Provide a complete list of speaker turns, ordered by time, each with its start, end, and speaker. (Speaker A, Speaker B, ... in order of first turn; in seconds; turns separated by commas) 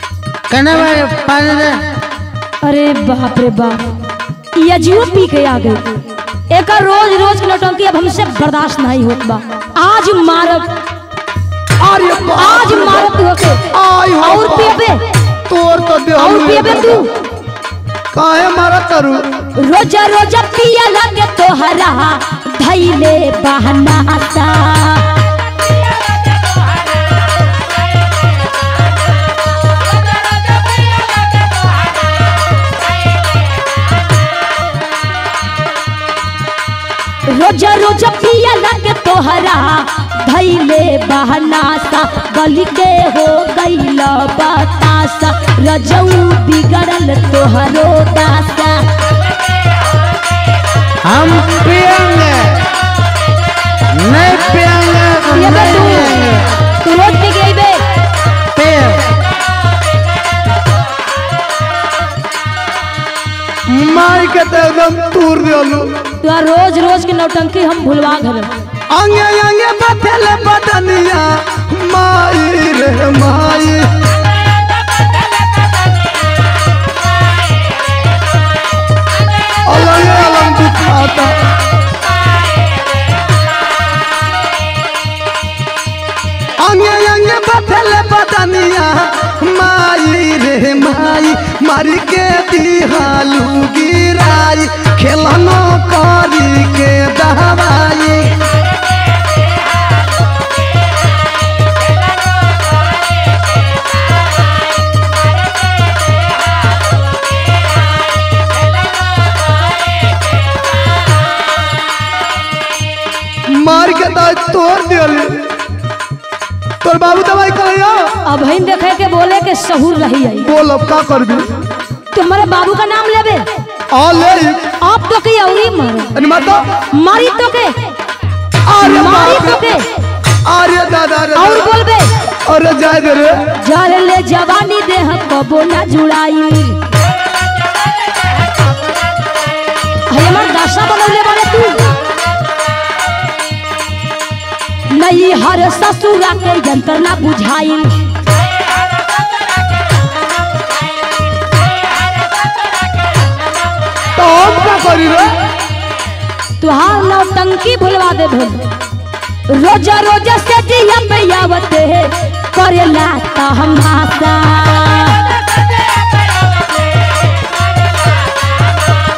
Speaker A: 0.5-1.9, Speaker B: 2.6-4.0, Speaker B: 4.5-10.8, Speaker C: 11.8-13.2, Speaker B: 12.4-15.1, Speaker C: 13.7-14.8, Speaker C: 15.5-17.1, Speaker B: 16.2-17.2, Speaker C: 18.1-19.4, Speaker B: 19.6-25.2, Speaker B: 37.3-48.9, Speaker A: 51.0-52.7, Speaker A: 53.9-56.5, Speaker B: 55.4-57.9, Speaker A: 58.5-59.1, Speaker C: 63.7-66.2, Speaker B: 66.2-68.6, Speaker C: 68.9-74.1, Speaker C: 79.6-81.5, Speaker C: 86.6-98.5, Speaker C: 113.5-115.6, Speaker C: 116.8-118.2, Speaker B: 118.2-120.5, Speaker C: 120.4-121.5, Speaker B: 122.1-123.5, Speaker C: 123.9-124.7, Speaker B: 124.8-126.2, Speaker C: 126.2-126.7, Speaker B: 126.9-127.9, Speaker C: 128.7-129.7, Speaker B: 128.8-129.9, Speaker C: 130.4-131.7, Speaker B: 131.3-132.2, Speaker C: 132.4-133.5, Speaker B: 133.6-136.8, Speaker B: 140.1-141.9, Speaker B: 144.9-148.1, Speaker C: 154.1-155.4, Speaker B: 156.6-158.7, Speaker B: 159.5-165.4